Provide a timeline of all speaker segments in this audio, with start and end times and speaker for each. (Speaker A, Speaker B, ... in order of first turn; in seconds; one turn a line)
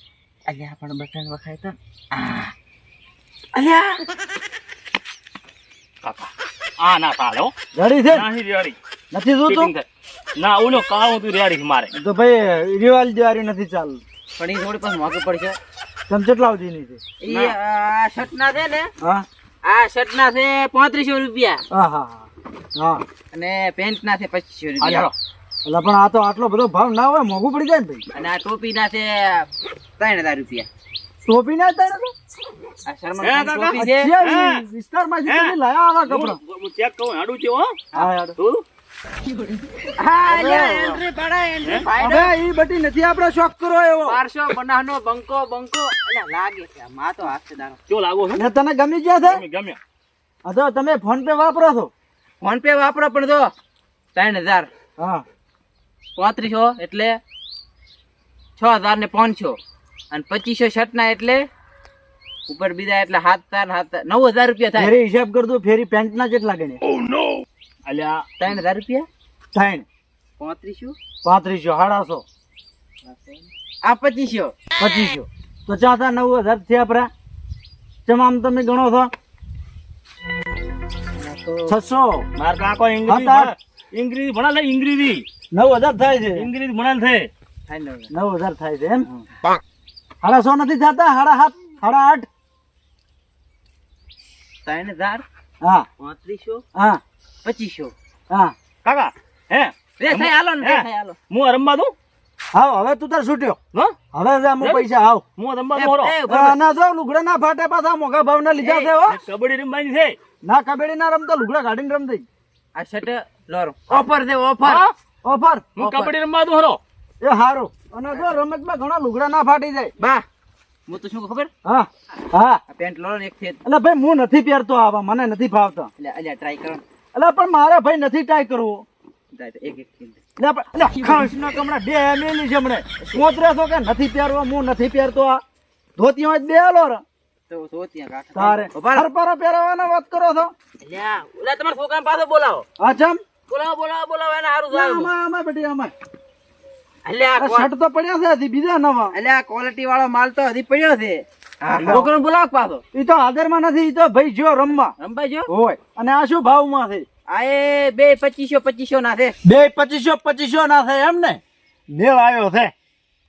Speaker A: 0.5-2.5
Speaker A: 3.5-4.0
Speaker B: 6.0-7.5
Speaker C: 7.7-8.3
Speaker B: 8.1-8.8
Speaker C: 9.1-9.7
Speaker B: 9.5-11.9
Speaker C: 11.9-14.0
Speaker A: 14.4-15.6
Speaker C: 16.1-17.0
Speaker A: 17.2-18.9
Speaker B: 17.3-17.5
Speaker A: 19.6-21.6
Speaker C: 21.7-23.0
Speaker A: 23.3-25.1
Speaker B: 24.8-25.1
Speaker C: 25.6-28.0
Speaker A: 28.1-30.7
Speaker C: 31.2-32.1
Speaker A: 32.9-34.1
Speaker B: 33.2-34.6
Speaker C: 33.8-36.4
Speaker B: 35.2-37.8
Speaker C: 37.9-38.4
Speaker B: 38.4-38.6
Speaker A: 40.0-42.3
Speaker C: 40.3-41.0
Speaker C: 42.0-44.2
Speaker A: 44.0-47.8
Speaker B: 47.9-48.4
Speaker C: 48.4-49.4
Speaker B: 49.2-49.8
Speaker C: 50.4-51.9
Speaker A: 52.4-53.5
Speaker A: 54.1-54.7
Speaker C: 55.0-55.2
Speaker A: 56.1-57.2
Speaker A: 58.6-59.6
Speaker A: 60.1-61.5
Speaker A: 62.5-64.9
Speaker C: 64.8-66.8
Speaker B: 67.9-68.2
Speaker A: 68.4-69.1
Speaker C: 69.5-69.8
Speaker A: 70.4-71.0
Speaker C: 71.2-72.2
Speaker A: 73.8-74.5
Speaker C: 74.8-77.1
Speaker C: 78.0-79.1
Speaker A: 81.3-81.7
Speaker C: 81.7-82.2
Speaker B: 82.4-85.2
Speaker C: 83.0-83.5
Speaker C: 85.5-86.5
Speaker B: 86.4-87.3
Speaker A: 87.7-88.1
Speaker C: 88.1-89.1
Speaker C: 90.2-92.3
Speaker A: 94.6-95.2
Speaker C: 95.6-95.9
Speaker A: 96.0-96.6
Speaker C: 96.8-97.0
Speaker A: 97.4-97.9
Speaker B: 98.8-101.9
Speaker A: 100.0-101.2
Speaker C: 102.5-103.6
Speaker C: 104.1-105.2
Speaker B: 105.4-106.1
Speaker A: 105.8-106.6
Speaker C: 106.3-109.2
Speaker A: 108.6-108.9
Speaker B: 109.0-110.2
Speaker C: 110.4-112.2
Speaker A: 112.8-114.9
Speaker B: 114.6-114.9
Speaker C: 115.2-115.7
Speaker B: 115.8-116.8
Speaker A: 115.8-116.1
Speaker C: 117.2-119.9
Speaker A: 120.9-121.5
Speaker C: 121.6-122.6
Speaker A: 122.7-123.6
Speaker C: 123.6-125.9
Speaker A: 126.0-126.8
Speaker C: 127.1-128.8
Speaker A: 129.3-130.2
Speaker C: 130.4-135.4
Speaker C: 136.0-137.0
Speaker A: 137.5-139.0
Speaker C: 138.3-140.5
Speaker A: 140.8-142.7
Speaker C: 142.8-143.2
Speaker A: 143.5-145.1
Speaker C: 144.7-145.9
Speaker A: 147.1-147.7
Speaker C: 147.4-149.1
Speaker A: 149.1-152.8
Speaker C: 151.8-152.1
Speaker C: 152.9-154.9
Speaker A: 155.0-155.5
Speaker C: 155.5-157.1
Speaker A: 157.3-159.4
Speaker C: 159.4-162.7